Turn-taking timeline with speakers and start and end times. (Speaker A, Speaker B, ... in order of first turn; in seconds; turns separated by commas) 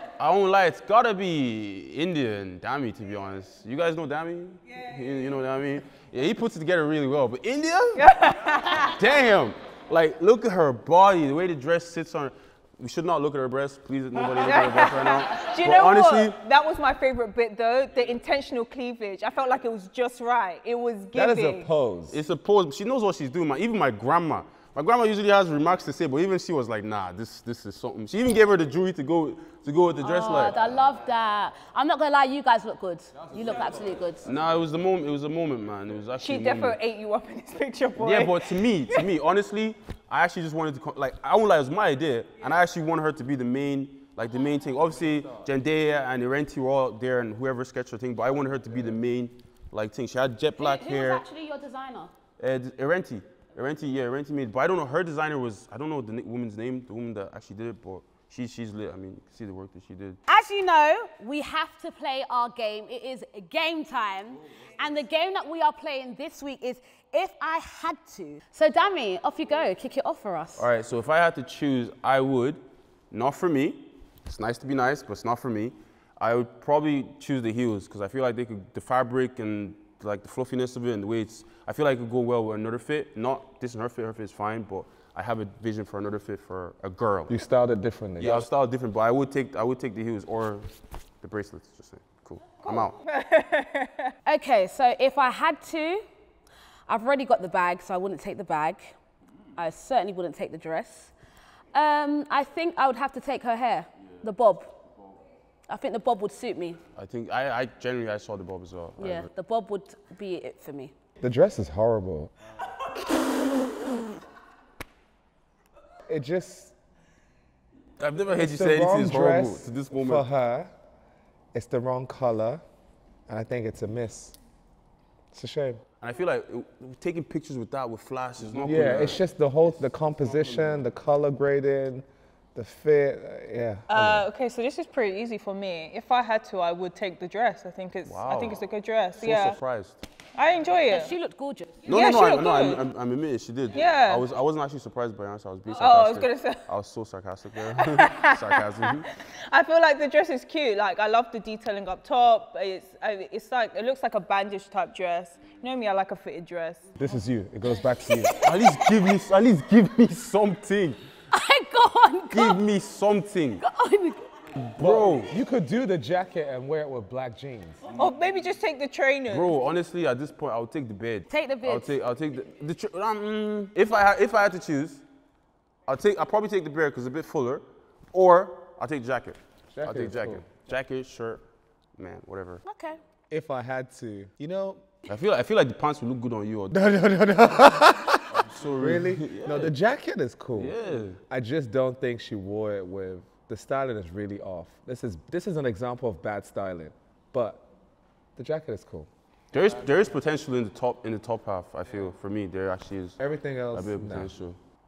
Speaker A: 0.2-8.1, Speaker B: 8.0-8.9, Speaker A: 8.8-16.4, Speaker B: 14.3-21.7, Speaker C: 21.1-22.2, Speaker A: 22.1-30.6, Speaker D: 30.0-34.2, Speaker A: 34.2-36.8, Speaker B: 36.2-39.1, Speaker A: 38.0-51.2, Speaker D: 50.6-52.1, Speaker A: 52.4-60.2, Speaker D: 60.3-70.7, Speaker A: 70.6-87.3, Speaker C: 87.3-88.5, Speaker A: 88.2-93.0, Speaker B: 92.6-94.1, Speaker D: 94.2-96.0, Speaker D: 96.9-99.0, Speaker D: 99.6-101.1, Speaker D: 101.7-104.7, Speaker D: 105.7-106.8, Speaker A: 107.0-109.3, Speaker D: 109.0-110.9, Speaker C: 111.2-112.3, Speaker C: 116.1-116.7, Speaker A: 118.0-120.2, Speaker C: 118.3-120.7, Speaker C: 121.5-122.6, Speaker C: 123.3-124.3, Speaker C: 125.3-125.8, Speaker A: 126.0-129.2, Speaker C: 128.6-134.3, Speaker B: 133.9-139.6, Speaker A: 138.0-138.7, Speaker A: 139.2-140.0, Speaker B: 140.3-141.1, Speaker D: 140.9-141.7, Speaker A: 141.8-149.1, Speaker B: 141.9-142.8, Speaker B: 143.7-144.2, Speaker B: 145.7-146.6, Speaker B: 147.7-156.9, Speaker C: 157.0-158.4, Speaker A: 158.4-161.0, Speaker D: 161.3-162.6, Speaker A: 162.3-163.6, Speaker D: 163.6-164.3, Speaker A: 164.6-165.3, Speaker C: 164.8-167.8, Speaker B: 168.0-169.5, Speaker A: 169.3-175.0, Speaker D: 171.3-171.9, Speaker A: 175.9-181.4, Speaker C: 179.7-180.4, Speaker A: 182.0-182.6, Speaker D: 182.6-183.0, Speaker C: 183.3-184.8, Speaker A: 185.1-186.7, Speaker C: 186.7-190.8, Speaker A: 188.3-189.7, Speaker A: 190.6-191.2, Speaker C: 191.3-197.6, Speaker C: 198.3-199.1, Speaker A: 199.5-203.2, Speaker C: 203.2-204.3, Speaker A: 203.7-204.6